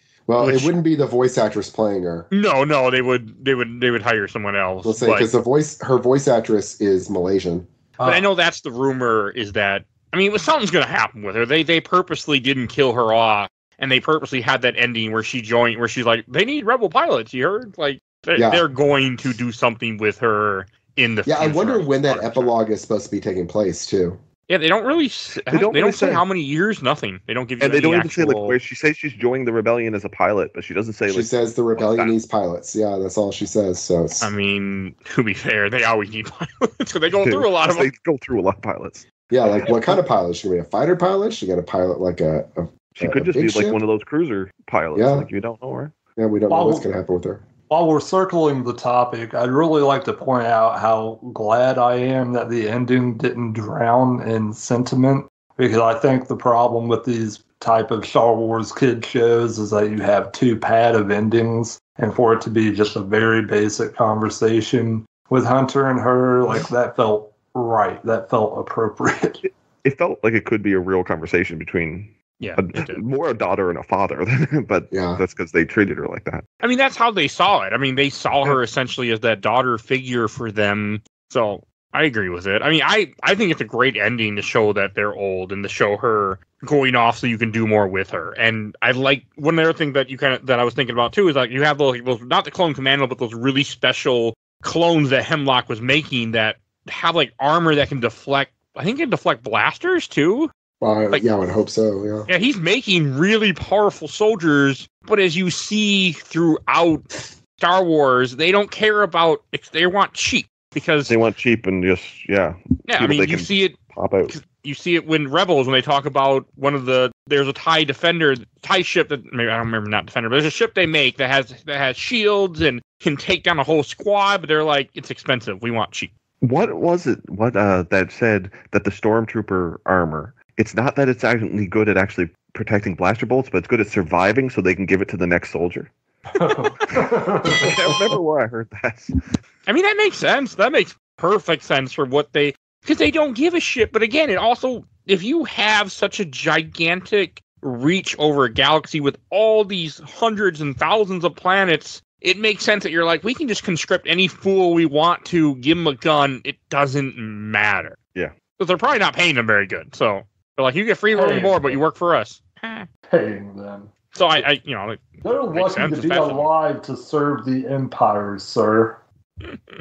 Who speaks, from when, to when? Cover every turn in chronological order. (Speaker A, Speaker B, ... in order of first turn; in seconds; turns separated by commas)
Speaker A: 0.3-2.3, Speaker B: 0.4-0.7, Speaker B: 2.3-5.3, Speaker A: 4.8-7.7, Speaker C: 8.0-8.3, Speaker B: 8.0-22.5, Speaker A: 18.4-18.6, Speaker A: 21.3-24.2, Speaker B: 24.5-28.6, Speaker D: 25.5-26.2, Speaker D: 27.6-32.2, Speaker A: 31.1-34.3, Speaker B: 34.2-37.9, Speaker D: 37.2-39.0, Speaker A: 39.3-43.8, Speaker D: 43.0-45.9, Speaker A: 45.0-45.3, Speaker A: 46.2-47.4, Speaker C: 46.5-46.9, Speaker C: 47.7-69.4, Speaker D: 69.8-76.4, Speaker B: 72.4-73.0, Speaker A: 74.9-75.2, Speaker B: 76.6-100.5, Speaker A: 100.8-102.3, Speaker B: 102.3-111.1, Speaker D: 111.1-114.3, Speaker B: 112.9-113.8, Speaker B: 114.3-126.1, Speaker D: 126.4-135.9, Speaker C: 136.3-137.7, Speaker B: 136.5-137.0, Speaker D: 137.5-139.1, Speaker B: 139.7-158.0, Speaker B: 158.6-162.9, Speaker C: 161.1-161.8, Speaker C: 163.1-164.5, Speaker B: 164.1-166.5, Speaker C: 165.2-169.0